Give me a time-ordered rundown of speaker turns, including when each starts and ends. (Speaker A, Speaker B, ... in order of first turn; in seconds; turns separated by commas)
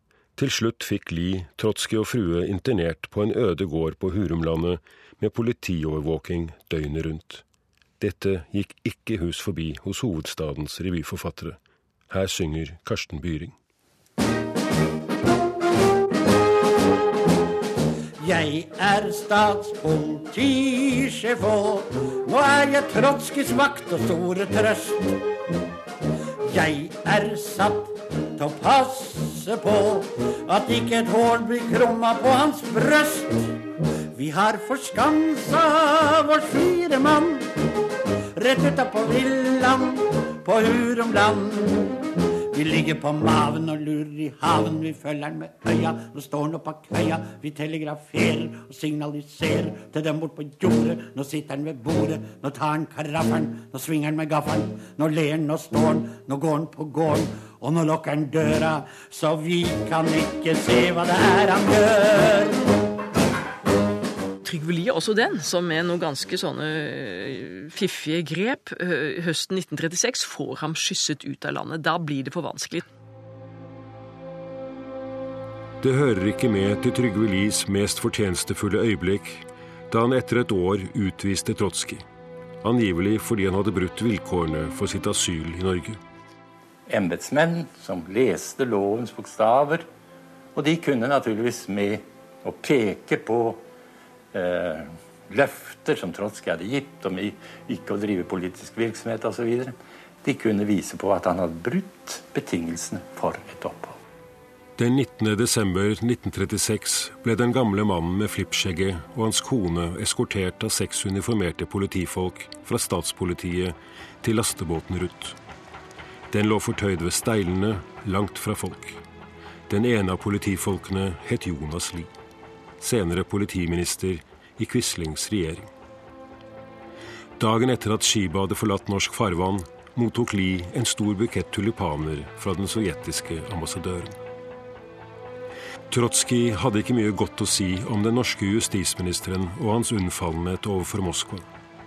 Speaker A: 0.3-7.4, Speaker A: 8.0-11.6, Speaker A: 12.1-13.5, Speaker B: 18.2-25.2, Speaker B: 26.4-33.6, Speaker B: 34.1-37.5, Speaker B: 38.4-62.6, Speaker C: 64.4-72.8, Speaker A: 75.8-82.0, Speaker A: 82.6-86.0, Speaker D: 86.9-89.9, Speaker D: 90.5-93.6, Speaker D: 94.3-104.0, Speaker A: 104.8-115.4, Speaker A: 116.3-119.0, Speaker A: 119.7-122.1, Speaker A: 122.8-125.7, Speaker A: 127.4-134.2, Speaker A: 135.9-141.4